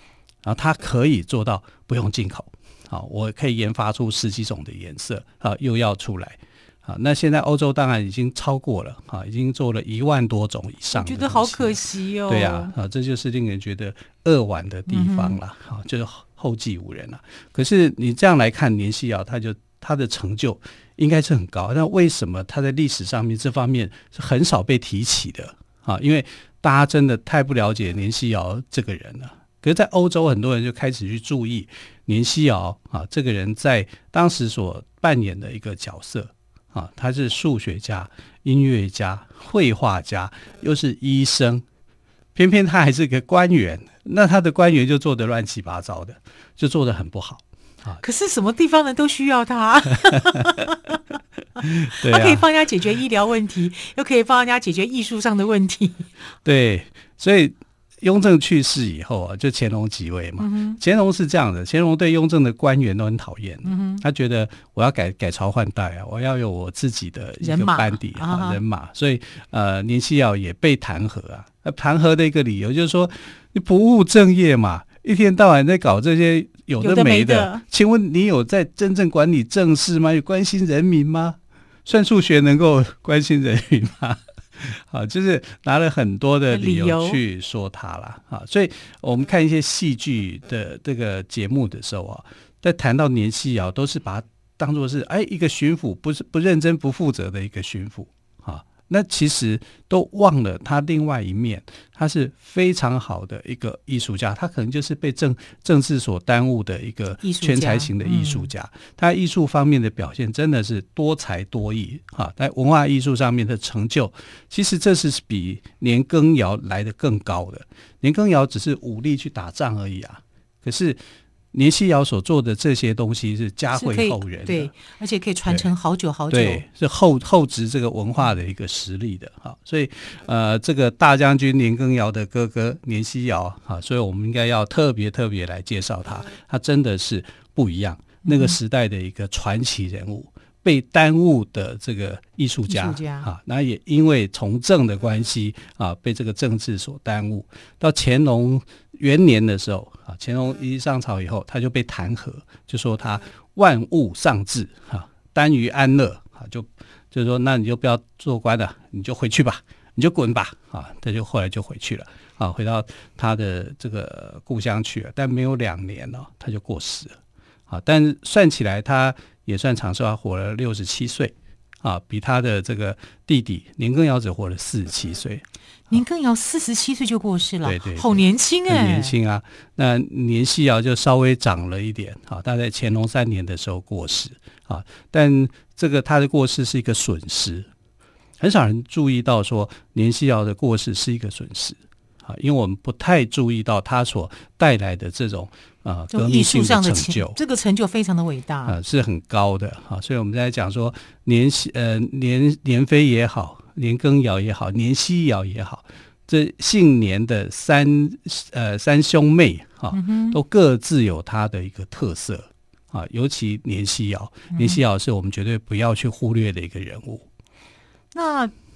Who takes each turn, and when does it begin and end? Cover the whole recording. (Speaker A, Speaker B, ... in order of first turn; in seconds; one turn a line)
Speaker A: 0.4-41.6
Speaker B: 10.9-12.7
Speaker B: 14.9-15.4
Speaker A: 42.4-48.0
Speaker B: 48.0-51.0
Speaker A: 50.1-50.5
Speaker A: 51.6-52.5
Speaker B: 51.6-56.1
Speaker A: 56.5-121.0
Speaker B: 60.4-60.8
Speaker B: 63.6-64.0
Speaker B: 67.4-68.6
Speaker B: 76.8-77.6
Speaker B: 86.5-87.2
Speaker B: 107.2-108.5
Speaker A: 121.5-124.7
Speaker B: 123.8-126.6
Speaker A: 125.5-125.7
Speaker A: 126.3-167.2
Speaker B: 138.2-138.6
Speaker B: 142.7-143.3
Speaker A: 167.7-176.0
Speaker B: 175.9-179.2
Speaker A: 177.6-187.7
Speaker A: 188.4-197.4
Speaker B: 196.1-198.8
Speaker A: 198.7-217.3
Speaker B: 209.9-210.4
Speaker B: 214.5-214.8
Speaker B: 218.1-218.5